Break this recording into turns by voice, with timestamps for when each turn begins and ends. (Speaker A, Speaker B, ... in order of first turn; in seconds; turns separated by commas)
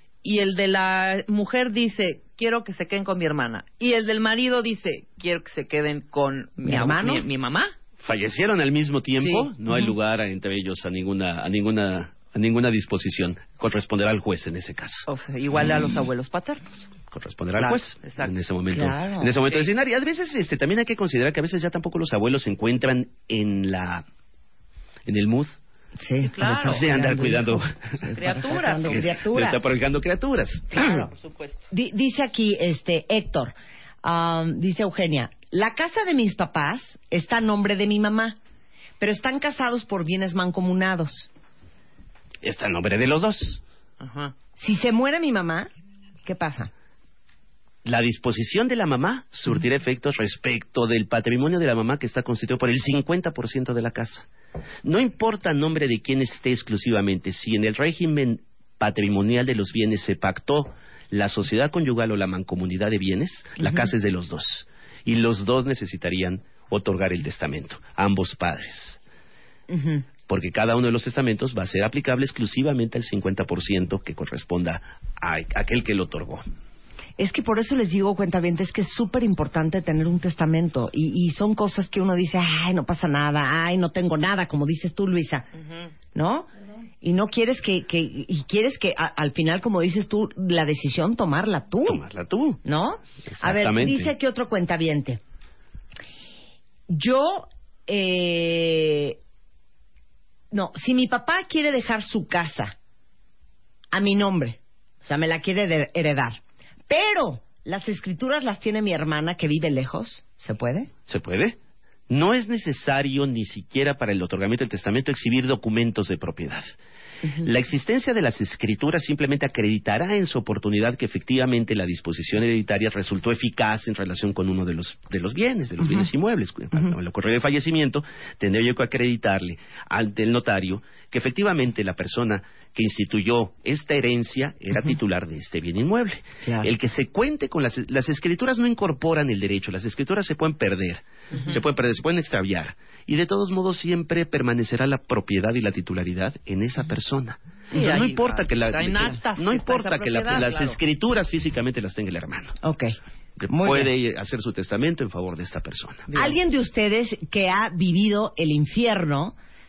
Speaker A: 0.2-7.7, Speaker B: 6.6-7.2, Speaker C: 8.0-15.1, Speaker A: 9.2-9.5, Speaker A: 15.1-16.7, Speaker C: 17.1-24.0, Speaker A: 17.6-18.3, Speaker B: 18.7-19.4, Speaker C: 25.1-25.6, Speaker B: 26.0-29.6, Speaker A: 26.2-26.9, Speaker C: 26.5-28.0, Speaker A: 28.1-29.1, Speaker C: 28.9-31.0, Speaker A: 30.7-31.6, Speaker B: 31.7-38.4, Speaker B: 39.0-41.3, Speaker C: 42.4-43.6, Speaker A: 44.0-44.3, Speaker B: 44.6-45.7, Speaker B: 46.2-46.7, Speaker C: 47.9-54.3, Speaker C: 54.8-69.0, Speaker B: 69.7-70.0, Speaker C: 70.3-76.5, Speaker B: 77.2-85.5, Speaker B: 86.2-86.5, Speaker B: 87.0-92.0, Speaker C: 91.9-92.6, Speaker B: 92.6-95.2, Speaker C: 93.3-94.1, Speaker B: 96.9-99.2, Speaker B: 100.5-102.8, Speaker B: 103.9-110.9, Speaker C: 111.1-111.6, Speaker C: 112.1-116.7, Speaker C: 117.4-152.6, Speaker B: 136.4-136.7, Speaker A: 147.7-150.8, Speaker B: 152.6-153.0, Speaker C: 153.4-156.1, Speaker B: 153.5-153.9, Speaker A: 156.1-156.4, Speaker B: 156.1-159.3